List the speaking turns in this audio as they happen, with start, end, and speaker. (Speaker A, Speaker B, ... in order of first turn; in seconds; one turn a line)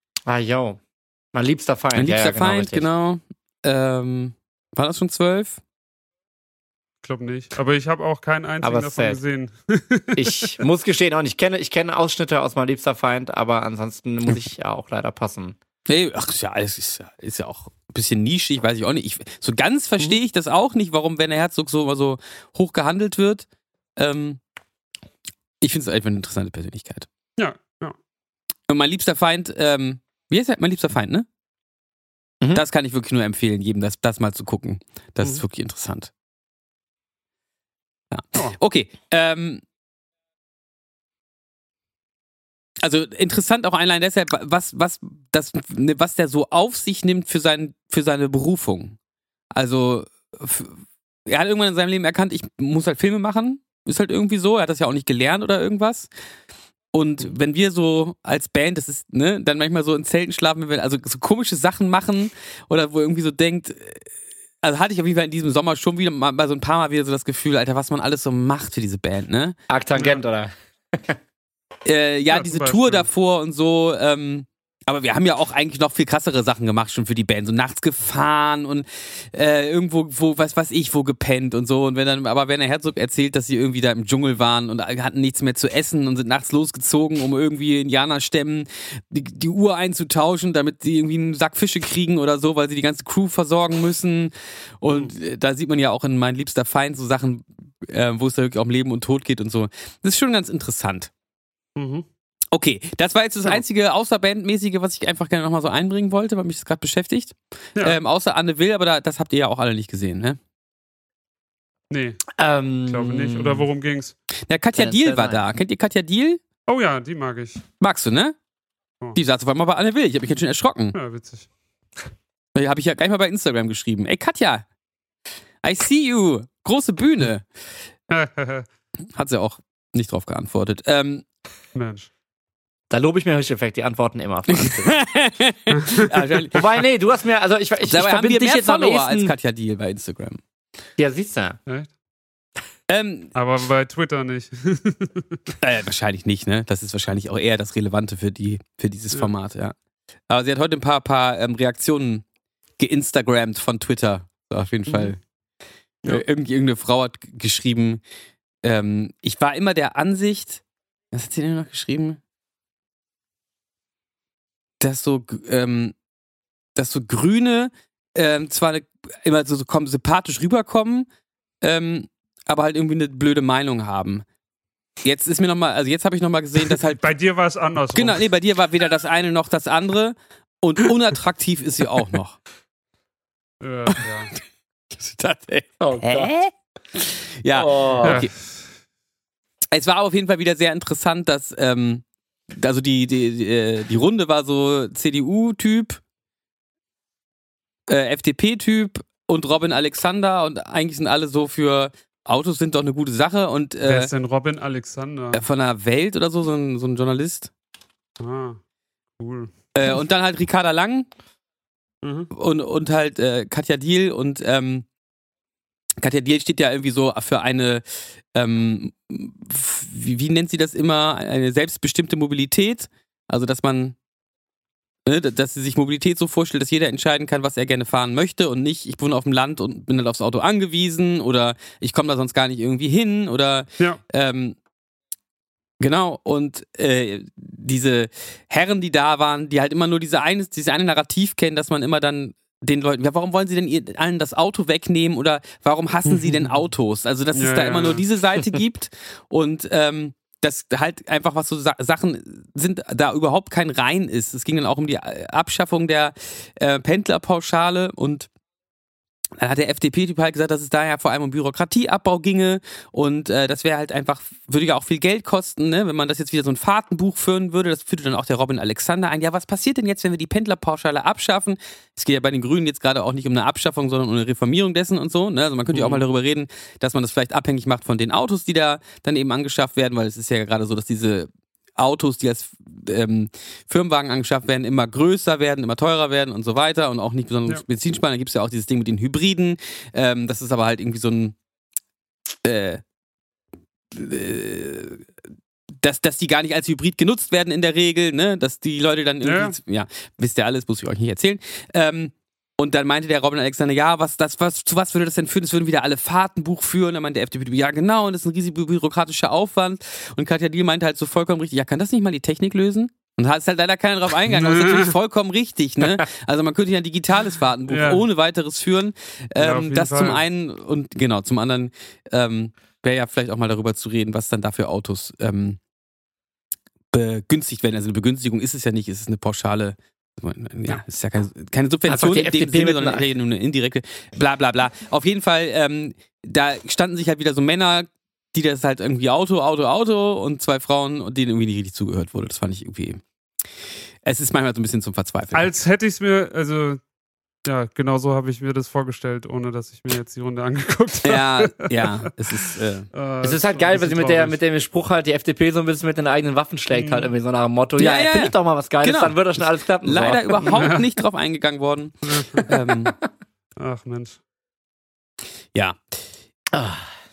Speaker A: 0.3-0.8
Speaker A: 1.3-2.9
Speaker B: 1.9-5.6
Speaker C: 7.0-10.5
Speaker A: 8.6-9.2
Speaker A: 10.1-15.6
Speaker B: 15.9-23.4
Speaker B: 24.0-24.4
Speaker B: 25.6-27.1
Speaker C: 27.4-27.9
Speaker B: 28.7-31.3
Speaker B: 32.5-36.1
Speaker B: 38.1-39.6
Speaker B: 42.8-49.0
Speaker B: 49.5-56.1
Speaker B: 56.9-64.1
Speaker B: 64.6-69.6
Speaker A: 69.7-71.2
Speaker C: 70.0-70.2
Speaker B: 71.8-101.1
Speaker C: 72.3-73.1
Speaker C: 101.8-102.0
Speaker B: 102.5-110.4
Speaker C: 111.9-112.2
Speaker A: 112.4-113.7
Speaker C: 112.9-114.1
Speaker B: 114.5-116.4
Speaker A: 114.7-115.4
Speaker C: 116.7-117.6
Speaker B: 117.8-118.3
Speaker B: 119.1-121.0
Speaker C: 120.9-121.5
Speaker B: 122.5-124.6
Speaker B: 125.6-127.4
Speaker C: 128.1-128.7
Speaker B: 129.1-131.2
Speaker C: 131.7-132.1
Speaker A: 132.9-134.9
Speaker B: 134.5-136.7
Speaker C: 135.7-136.4
Speaker A: 136.5-139.3
Speaker B: 137.8-140.4
Speaker A: 141.0-141.6
Speaker B: 142.9-143.3
Speaker C: 143.3-145.5
Speaker B: 145.6-149.7
Speaker B: 150.3-152.2
Speaker B: 152.8-155.2
Speaker B: 156.0-158.0
Speaker B: 158.6-162.2
Speaker B: 164.8-165.9
Speaker B: 166.7-171.1
Speaker B: 171.6-174.2
Speaker B: 175.0-177.0
Speaker C: 177.0-178.2
Speaker B: 177.9-182.4
Speaker C: 183.6-184.3
Speaker B: 184.9-188.3
Speaker A: 185.8-186.3
Speaker A: 187.5-188.2
Speaker C: 188.0-188.3
Speaker B: 189.7-196.0
Speaker B: 197.9-204.1
Speaker C: 203.8-205.4
Speaker B: 205.3-207.5
Speaker C: 208.2-208.6
Speaker C: 209.2-209.5
Speaker B: 209.7-211.1
Speaker C: 212.0-212.3
Speaker B: 212.3-214.8
Speaker B: 216.0-223.9
Speaker B: 225.1-234.6
Speaker B: 235.8-258.3
Speaker C: 246.1-246.6
Speaker C: 247.3-248.0
Speaker B: 259.4-291.3
Speaker C: 275.7-276.0
Speaker B: 292.4-292.8
Speaker B: 293.9-295.1
Speaker B: 295.8-325.6
Speaker C: 299.2-299.6
Speaker C: 314.3-314.9
Speaker C: 317.7-318.0
Speaker C: 319.4-320.2
Speaker B: 326.9-343.0
Speaker A: 331.9-333.1
Speaker B: 344.0-345.5
Speaker C: 345.3-346.8
Speaker C: 347.4-352.1
Speaker B: 351.0-352.9
Speaker C: 352.9-354.4
Speaker A: 353.2-360.6
Speaker C: 356.7-357.1
Speaker B: 357.8-362.9
Speaker C: 360.5-360.9
Speaker C: 362.1-362.5
Speaker C: 363.6-364.2
Speaker B: 365.5-365.8
Speaker A: 366.5-366.9